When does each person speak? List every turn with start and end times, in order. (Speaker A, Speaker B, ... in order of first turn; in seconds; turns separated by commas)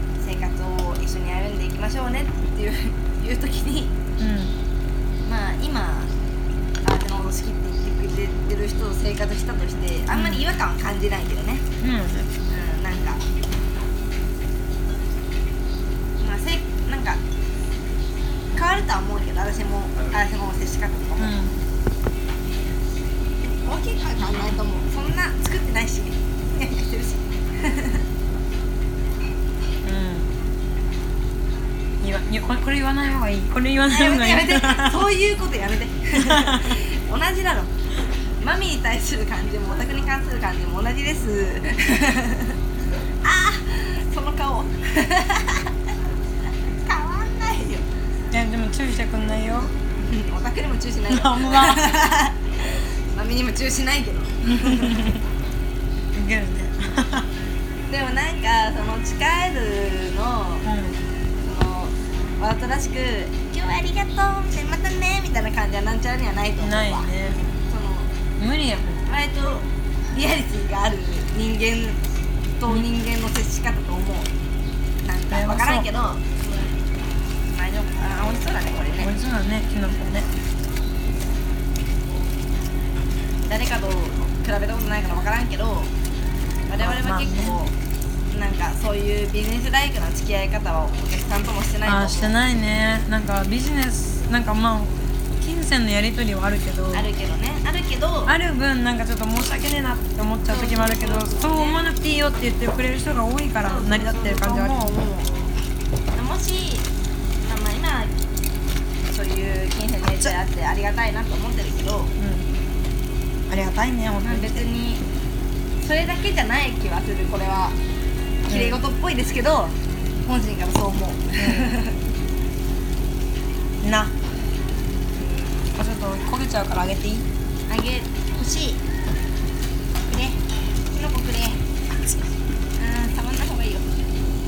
Speaker A: 0.2-3.9, Speaker B: 4.2-4.5, Speaker A: 5.2-6.1, Speaker A: 6.8-11.6, Speaker B: 10.1-10.4, Speaker B: 11.8-12.3, Speaker A: 12.5-13.2, Speaker A: 16.2-17.2, Speaker A: 18.5-21.4, Speaker B: 21.2-21.6, Speaker A: 23.4-28.0, Speaker B: 29.8-30.3, Speaker B: 32.0-35.0, Speaker A: 33.8-37.7, Speaker B: 36.2-36.6, Speaker A: 38.4-42.5, Speaker A: 43.2-45.7, Speaker A: 46.8-47.8, Speaker B: 48.3-49.7, Speaker A: 50.0-55.0, Speaker B: 51.1-51.8, Speaker B: 54.5-55.2, Speaker B: 56.1-57.2, Speaker A: 57.9-60.6, Speaker B: 60.6-61.0, Speaker A: 61.4-68.1, Speaker B: 66.6-67.5, Speaker B: 68.4-69.0, Speaker A: 69.0-72.0, Speaker A: 72.6-74.3, Speaker A: 75.0-76.2, Speaker B: 75.3-75.9, Speaker A: 77.5-79.1, Speaker B: 79.0-80.3, Speaker A: 83.4-85.9, Speaker A: 86.7-87.7, Speaker B: 86.8-87.6, Speaker A: 88.3-92.4, Speaker B: 91.8-97.0, Speaker A: 96.9-98.3, Speaker B: 98.3-104.9, Speaker A: 100.5-101.8, Speaker A: 103.6-105.3, Speaker A: 106.1-106.9, Speaker A: 107.4-108.1, Speaker A: 109.1-112.1, Speaker B: 112.2-112.5, Speaker B: 113.5-114.6, Speaker A: 114.2-115.0, Speaker A: 115.8-117.8, Speaker A: 118.5-122.0, Speaker B: 118.5-118.8, Speaker B: 121.4-121.7, Speaker B: 123.8-124.1, Speaker A: 125.2-125.7, Speaker B: 125.7-127.2, Speaker A: 127.7-128.8, Speaker A: 130.1-130.4, Speaker A: 130.9-131.6, Speaker A: 132.8-133.9